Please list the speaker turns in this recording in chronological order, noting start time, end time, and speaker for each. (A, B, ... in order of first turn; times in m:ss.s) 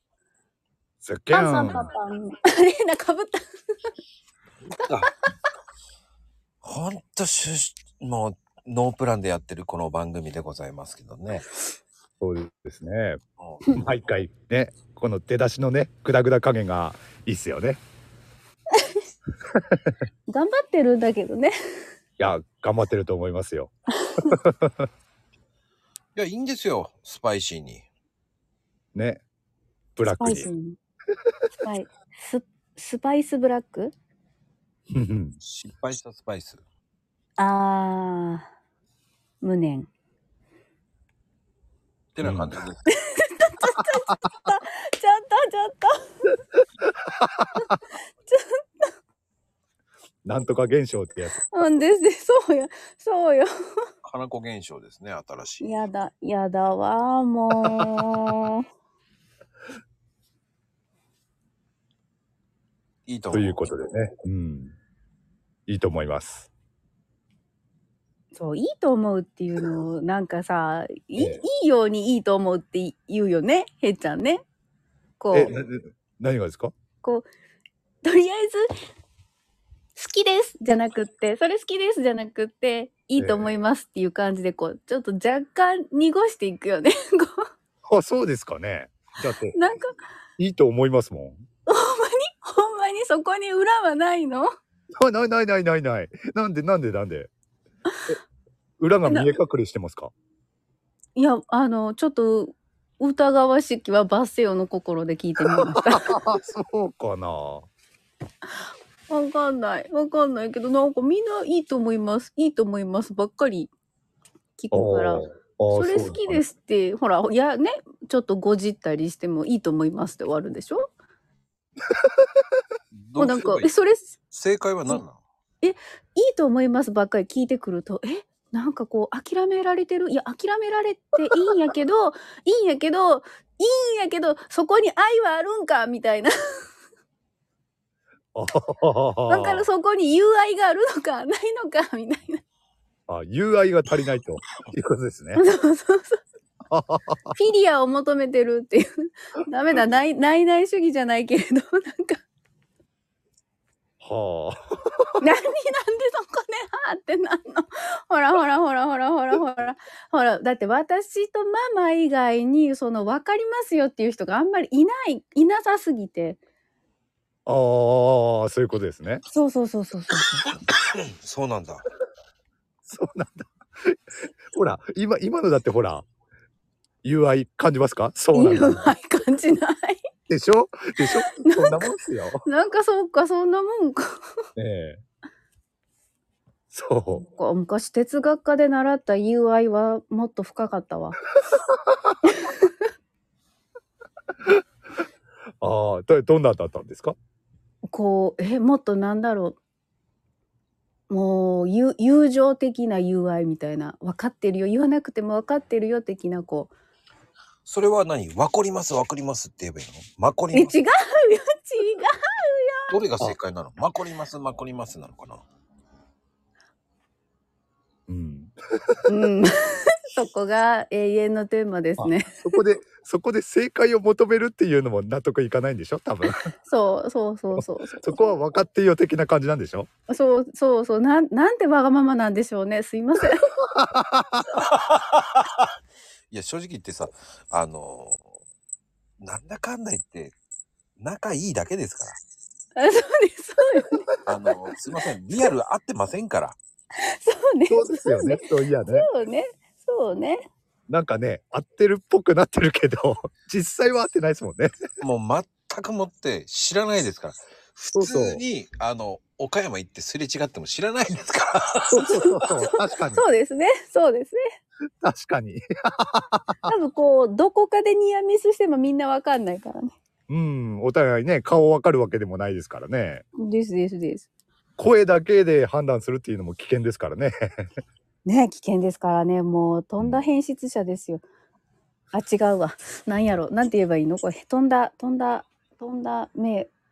0:01.0-0:01.9 A
0:01.3-0:03.4 B
0:04.7-0:05.1 C
0:06.6-0:11.5 C
0:12.2-0:13.2 A
0:13.4-0:13.6 C
0:13.8-0:17.8 A
0:18.8-0:19.0 B
0:19.5-0:19.9 A
0:20.3-0:21.5 B
0:22.2-0:23.7 A
0:24.0-0:24.3 B
0:24.2-0:24.9 A
0:26.2-0:27.8 C
0:28.9-0:29.2 A
0:30.0-0:30.5 A
0:30.2-0:30.8 B
0:31.6-0:33.9 B
0:34.9-0:35.4 A
0:35.4-0:36.6 C
0:37.4-0:38.5 B
0:39.4-0:39.9 B
0:42.1-0:42.9 C
0:42.2-0:42.6 A
0:43.1-0:45.9 B
0:47.2-0:47.5 A
0:48.3-0:48.9 B
0:50.2-0:51.5 A
0:51.5-0:53.5 B
0:54.0-0:55.8 C
0:55.6-0:58.6 B
1:03.0-1:03.7 C
1:03.3-1:04.7 A
1:05.7-1:06.5 A
1:08.3-1:14.4 B
1:11.2-1:11.4 A
1:15.2-1:15.5 B
1:15.3-1:16.7 A
1:18.0-1:18.6 B
1:20.0-1:27.4 B
1:23.2-1:23.5 A
1:27.9-1:29.6 A
1:29.5-1:29.9 B
1:30.4-1:31.4 A
1:31.7-1:34.5 B
1:35.0-1:37.3 A
1:38.8-1:40.1 A
1:41.2-1:46.1 B
1:45.7-1:47.7 A
1:49.1-1:53.7 B
1:54.6-2:00.9 B
1:54.7-1:56.4 A
2:02.9-2:03.7 C
2:03.2-2:04.1 B
2:04.3-2:05.2 C
2:05.6-2:16.3 B
2:18.3-2:19.6 A
2:19.3-2:22.4 B
2:23.1-2:25.4 A
2:25.4-2:26.2 B
2:26.7-2:27.3 A
2:27.3-2:32.2 B
2:34.0-2:35.2 A
2:35.2-2:46.4 B
2:47.4-2:49.2 A
2:49.3-2:50.4 B
2:50.5-2:51.8 C
2:52.9-2:54.0 A
2:54.5-2:56.0 A
2:57.0-2:58.9 A
2:58.3-3:00.0 B
3:00.3-3:02.4 A
3:01.1-3:01.9 B
3:02.4-3:04.1 B
3:04.6-3:05.0 A
3:06.7-3:07.2 A
3:07.1-3:11.2 B
3:11.5-3:12.1 A
3:12.2-3:12.7 B
3:15.6-3:17.1 A
3:17.9-3:19.6 B
3:21.1-3:26.7 B
3:27.6-3:30.8 C
3:30.5-3:32.9 B
3:32.9-3:35.4 C
3:38.1-3:39.2 A
3:39.1-3:39.6 B
3:40.1-3:42.4 B
3:42.0-3:46.4 A
3:46.3-3:48.2 B
3:47.6-3:49.9 A
3:50.1-3:53.5 B
3:53.7-3:54.6 A
3:54.6-3:55.7 C
3:56.3-3:58.3 C
3:59.2-4:00.4 C
4:01.0-4:02.2 C
4:02.8-4:04.0 B
4:04.2-4:06.6 C
4:07.0-4:10.4 B
4:07.7-4:09.1 A
4:10.9-4:14.7 A
4:15.0-4:22.0 C
4:17.9-4:18.4 A
4:21.9-4:23.2 A
4:22.1-4:24.4 B
4:25.0-4:26.7 A
4:26.6-4:29.9 B
4:30.3-4:33.2 A
4:33.4-4:34.3 B
4:34.8-4:37.7 A
4:38.2-4:41.2 B
4:40.0-4:40.3 A
4:42.1-4:46.7 B